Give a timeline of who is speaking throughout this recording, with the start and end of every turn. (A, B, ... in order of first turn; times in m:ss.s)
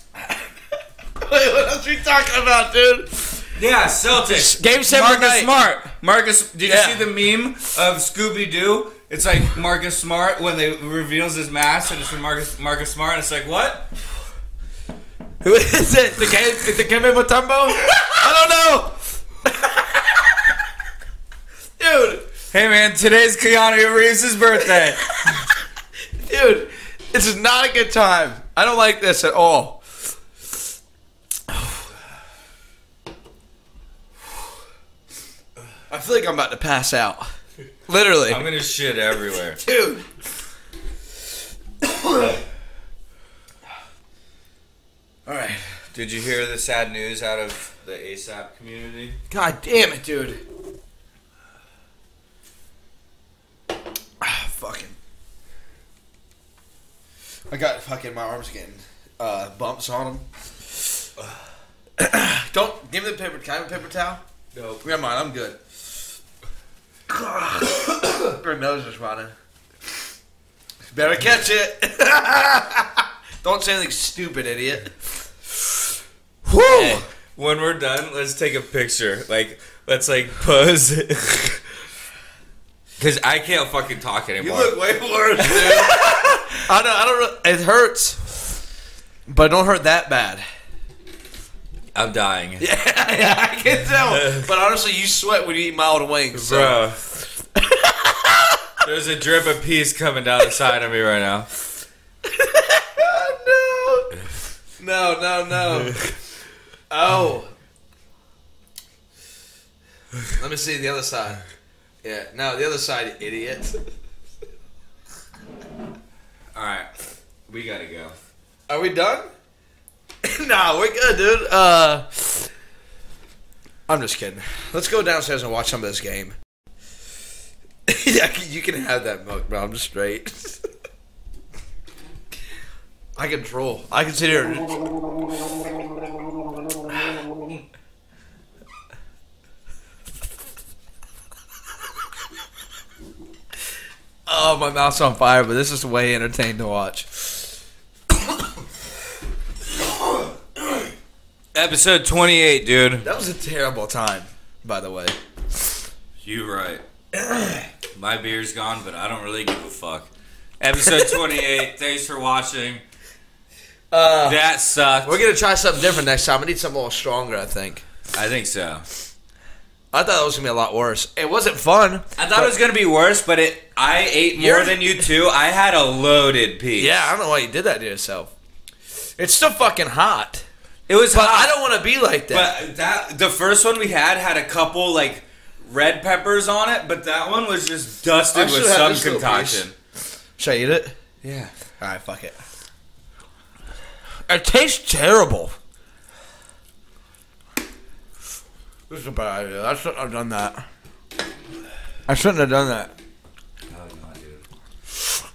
0:01.2-0:03.4 A
0:03.6-0:13.9 B
0:04.3-0:05.6 A
0:06.6-0:07.1 A
0:15.4-0:20.4 A
0:21.8-0:22.3 A
0:22.5-0:25.0 B
0:25.2-0:25.5 A
0:26.2-0:29.8 A
0:35.9-0:37.2 A
0:37.9-0:38.4 A
0:38.3-0:39.6 B
0:39.6-0:40.0 A
0:41.8-0:42.4 A
0:45.2-0:45.6 A
0:45.9-0:49.2 B
0:49.3-0:50.4 A
0:54.2-0:55.0 A
0:57.5-1:00.2 A
1:02.0-1:04.2 A
1:04.5-1:04.8 B
1:04.8-1:05.6 A
1:07.1-1:09.3 A
1:10.9-1:14.9 A
1:16.5-1:17.0 A
1:16.6-1:21.6 B
1:23.0-1:24.8 B
1:24.4-1:28.2 A
1:25.4-1:26.5 B
1:29.3-1:30.4 A
1:31.9-1:32.6 B
1:32.6-1:36.8 A
1:34.1-1:34.5 B
1:36.3-1:37.0 B
1:37.6-1:38.5 A
1:38.8-1:41.5 B
1:42.2-1:44.1 A
1:44.8-1:46.0 A
1:46.9-1:47.5 A
1:50.3-1:51.4 A
1:52.0-1:53.7 A
1:56.5-1:56.9 B
1:57.5-1:58.2 B
1:58.7-1:59.3 A
2:00.2-2:02.5 A
2:03.9-2:06.3 A
2:07.9-2:10.6 A
2:13.2-2:14.8 A
2:24.3-2:27.4 A
2:31.5-2:33.1 B
2:33.0-2:35.2 A
2:36.2-2:36.8 B
2:37.1-2:37.7 A
2:37.9-2:40.1 B
2:40.6-2:42.8 B
2:43.9-2:44.4 A
2:44.2-2:45.2 B
2:45.0-2:47.8 A
2:48.1-2:48.8 B
2:49.9-2:52.5 A
2:52.2-2:57.1 B
2:54.3-2:55.1 A
2:56.8-2:58.3 A
2:59.2-3:00.4 A
3:00.9-3:01.6 B
3:01.1-3:02.5 A
3:02.3-3:09.7 B
3:08.3-3:09.7 A
3:10.4-3:11.0 A
3:11.2-3:11.5 B
3:11.8-3:12.4 A
3:14.3-3:15.5 A
3:18.9-3:20.6 A
3:22.1-3:22.9 A
3:23.7-3:24.4 B